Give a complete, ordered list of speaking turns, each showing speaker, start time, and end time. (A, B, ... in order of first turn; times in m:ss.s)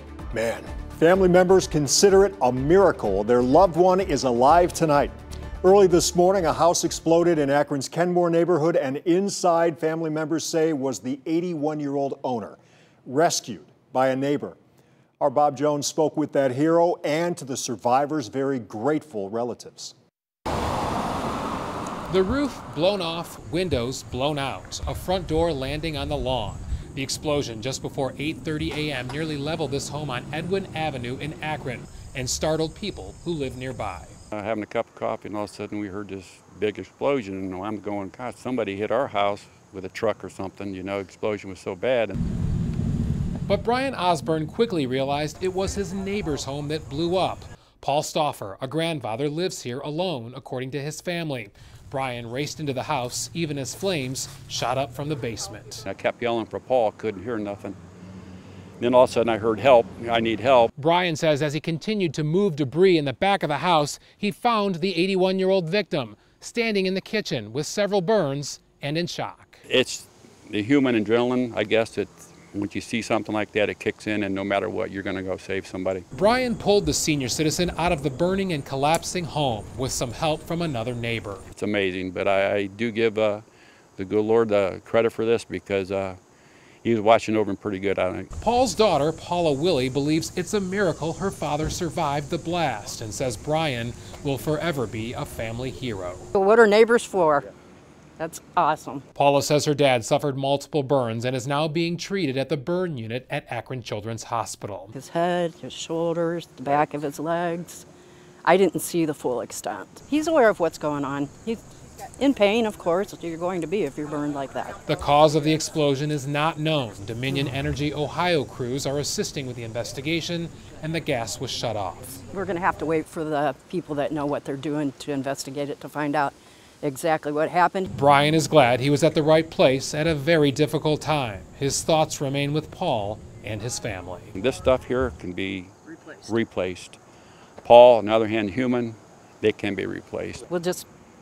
0:00.3-0:14.6 A
0:15.2-0:19.9 A
0:22.1-0:34.2 B
0:34.3-0:42.2 C
0:43.5-0:55.8 B
0:55.8-0:57.8 C
0:58.8-1:00.7 C
1:00.8-1:09.6 B
1:09.7-1:16.0 C
1:16.1-1:21.4 B
1:21.5-1:23.4 C
1:24.0-1:26.2 C
1:26.8-1:28.3 C
1:28.4-1:36.3 B
1:36.3-1:37.5 D
1:38.2-1:39.0 D
1:39.1-1:44.9 B
1:44.9-1:47.8 D
1:48.4-1:51.6 D
1:52.2-1:54.8 D
1:54.8-2:02.2 B
2:02.3-2:07.9 D
2:07.9-2:14.3 B
2:14.3-2:17.0 C
2:17.6-2:20.4 C
2:20.5-2:20.8 D